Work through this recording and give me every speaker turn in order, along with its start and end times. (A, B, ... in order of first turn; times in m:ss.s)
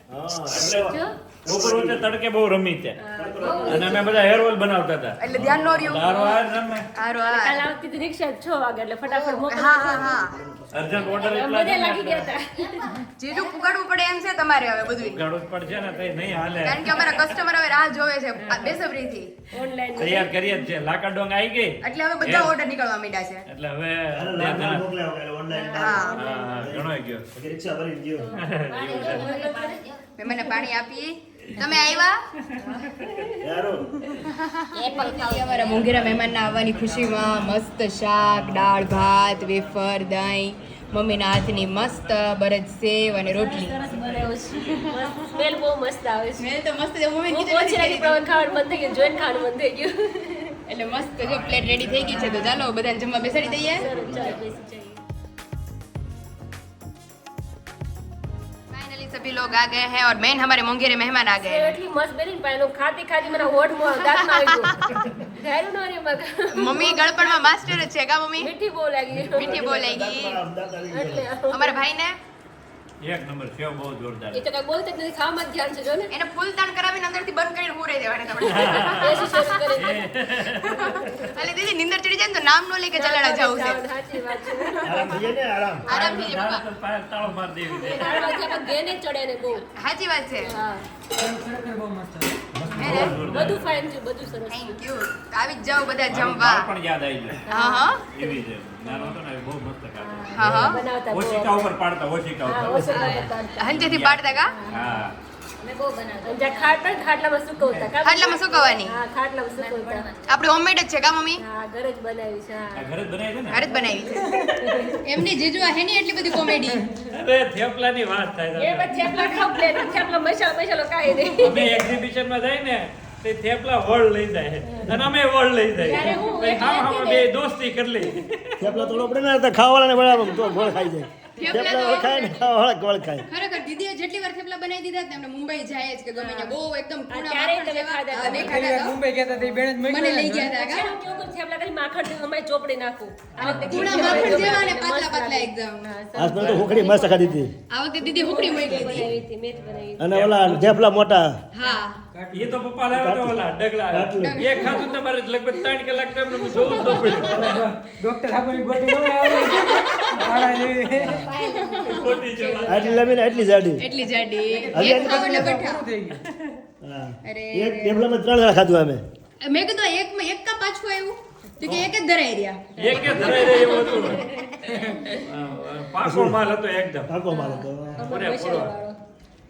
0:00.1-0:02.1 A
0:00.6-0:00.9 B
0:00.8-0:01.2 C
0:01.4-0:03.0 B
0:03.0-0:04.1 C
0:03.2-0:04.3 A
0:03.4-0:03.9 D
0:03.7-0:06.9 B
0:05.2-0:06.4 E
0:06.1-0:06.4 C
0:06.9-0:07.6 E
0:07.3-0:10.2 C
0:09.1-0:10.4 E
0:09.8-0:11.3 A
0:10.7-0:12.3 B
0:11.0-0:13.0 C
0:12.5-0:13.8 D
0:13.2-0:15.2 E
0:14.9-0:17.4 B
0:16.2-0:16.8 A
0:16.6-0:19.4 E
0:18.4-0:18.8 C
0:19.5-0:20.5 C
0:20.0-0:22.5 B
0:21.8-0:23.4 E
0:23.4-0:24.9 B
0:24.1-0:28.4 A
0:25.5-0:26.6 C
0:25.7-0:26.2 E
0:26.1-0:27.2 B
0:28.2-0:29.8 C
0:28.3-0:29.2 B
0:28.7-0:30.1 D
0:30.2-0:32.2 E
0:32.4-0:33.3 B
0:32.6-0:33.5 C
0:33.4-0:33.9 A
0:34.2-0:43.8 E
0:34.7-0:36.0 D
0:35.6-0:37.6 B
0:38.2-0:39.7 B
0:41.0-0:42.3 B
0:43.4-0:44.0 D
0:43.7-0:45.1 B
0:43.8-0:46.5 C
0:46.4-0:48.2 E
0:47.3-0:50.6 C
0:50.7-0:54.1 E
0:51.2-0:52.7 B
0:52.1-0:52.4 C
0:53.3-0:55.0 C
0:53.8-0:54.4 B
0:58.7-1:01.7 E
1:01.4-1:07.5 C
1:04.0-1:05.0 E
1:06.5-1:08.5 E
1:08.4-1:09.6 C
1:09.1-1:11.3 A
1:09.3-1:10.4 E
1:10.9-1:11.8 C
1:11.5-1:12.2 E
1:13.0-1:14.4 B
1:14.3-1:16.1 C
1:16.1-1:19.8 E
1:18.4-1:20.8 B
1:18.9-1:21.4 C
1:20.6-1:23.8 E
1:22.9-1:25.3 C
1:24.5-1:25.2 E
1:24.8-1:25.9 A
1:25.9-1:26.6 E
1:25.9-1:28.1 B
1:27.8-1:29.7 C
1:28.0-1:28.5 E
1:29.7-1:30.5 E
1:30.4-1:30.8 C
1:31.1-1:32.6 F
1:32.6-1:33.7 B
1:32.7-1:33.3 A
1:32.8-1:33.2 E
1:32.8-1:34.8 C
1:34.5-1:36.7 E
1:36.1-1:37.4 B
1:37.5-1:39.2 C
1:37.5-1:38.0 E
1:38.1-1:45.1 B
1:40.0-1:41.7 C
1:40.3-1:40.8 E
1:42.4-1:43.9 C
1:42.8-1:44.5 E
1:44.5-1:45.0 C
1:45.6-1:46.9 D
1:46.2-1:50.1 C
1:48.0-1:48.9 E
1:49.5-1:50.4 D
1:50.3-1:51.4 E
1:51.4-1:52.9 C
1:52.7-1:55.0 B
1:53.5-1:54.3 E
1:53.8-1:55.0 C
1:55.0-1:56.9 E
1:57.1-1:59.6 B
1:58.6-2:01.9 C
1:59.1-1:59.9 E
2:01.4-2:08.6 B
2:04.7-2:05.0 C
2:05.8-2:07.3 C
2:08.6-2:13.3 A
2:08.6-2:09.1 C
2:10.2-2:10.8 C
2:11.4-2:12.4 E
2:11.6-2:12.0 C
2:13.3-2:19.0 E
2:16.1-2:16.6 C
2:17.1-2:19.6 C
2:18.2-2:20.6 F
2:19.8-2:20.9 E
2:20.5-2:30.2 C
2:23.3-2:24.7 B
2:23.4-2:25.9 E
2:26.1-2:27.5 A
2:26.4-2:26.7 B
2:27.7-2:29.1 E
2:29.6-2:29.9 F
2:30.0-2:31.4 A
2:30.1-2:30.7 B
2:31.5-2:32.0 E
2:32.1-2:32.6 F
2:32.3-2:37.5 B
2:32.9-2:34.5 A
2:34.2-2:35.0 E
2:36.5-2:37.1 E
2:37.1-2:41.3 F
2:39.3-2:40.2 E
2:41.0-2:42.5 D
2:41.7-2:42.1 E
2:41.8-2:43.2 B
2:42.1-2:43.3 C
2:42.6-2:43.8 A
2:43.8-2:45.8 E
2:44.7-2:45.4 A
2:44.7-2:46.2 F
2:46.2-2:46.5 B
2:46.8-2:49.0 A
2:47.2-2:48.0 E
2:49.4-2:54.0 E
2:52.8-2:57.1 B
2:53.0-2:55.2 C
2:56.0-2:56.4 A
2:57.1-2:58.0 A
2:57.3-2:59.0 C
2:58.0-2:58.7 B